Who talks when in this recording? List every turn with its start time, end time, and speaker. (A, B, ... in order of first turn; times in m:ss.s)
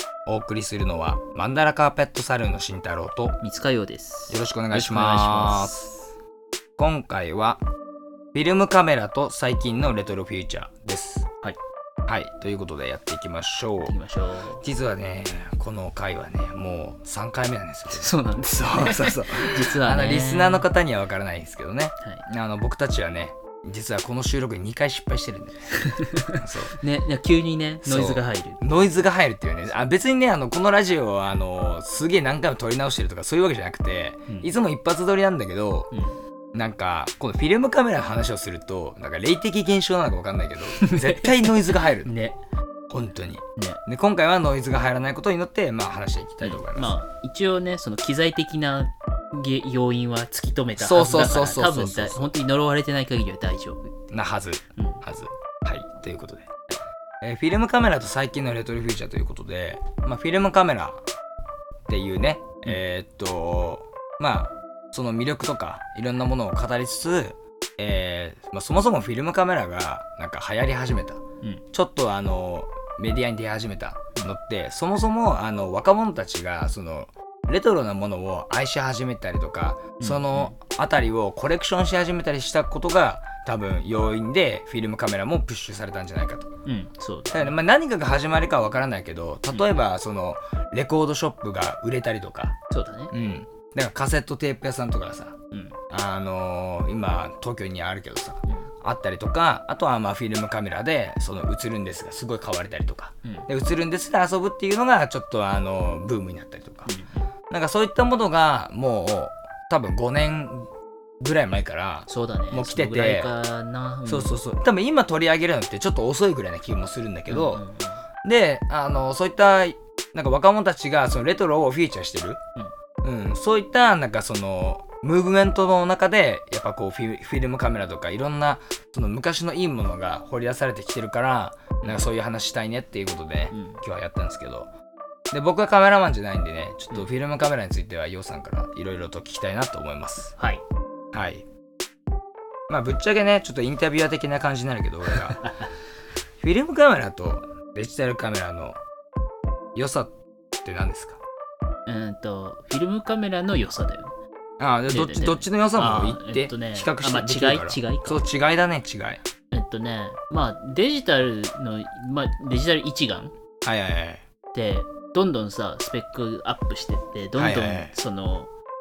0:00.2-0:03.4 A
0:03.4-0:06.0 B
0:04.3-0:05.8 A
0:06.8-0:07.6 A
0:08.3-0:11.3 A
0:12.1-0:14.0 A
0:13.8-0:14.6 B
0:14.6-0:25.8 A
0:17.9-0:20.6 B
0:25.7-0:29.0 B
0:26.4-0:26.8 A
0:27.8-0:35.9 A
0:36.5-0:42.1 A
0:40.7-0:41.5 B
0:42.0-0:42.4 B
0:42.9-0:46.9 A
0:46.4-0:54.0 B
0:50.8-0:52.3 A
0:54.1-0:56.6 A
0:54.8-0:55.0 B
0:57.2-1:01.0 A
1:01.9-1:26.5 A
1:20.0-1:20.6 B
1:26.6-1:27.6 B
1:27.3-1:32.6 A
1:32.7-1:33.1 B
1:33.1-1:35.4 A
1:35.5-1:35.8 B
1:35.9-1:46.9 A
1:46.8-1:47.3 B
1:47.5-1:50.7 A
1:51.2-1:53.3 A
1:52.1-1:54.4 B
1:54.0-1:57.6 A
1:57.3-1:58.0 B
1:58.2-2:02.4 A
2:03.0-2:14.7 A
2:13.5-2:13.8 B
2:15.3-2:20.3 A
2:20.4-2:20.6 B
2:21.1-2:21.4 A
2:22.7-2:25.5 A
2:25.1-2:25.7 B
2:26.4-2:28.8 A
2:29.7-2:31.2 A
2:31.9-2:34.1 B
2:34.6-2:39.2 A
2:34.9-2:38.2 B
2:39.5-2:43.3 B
2:43.6-2:44.2 A
2:44.5-2:48.5 B
2:47.4-2:47.9 A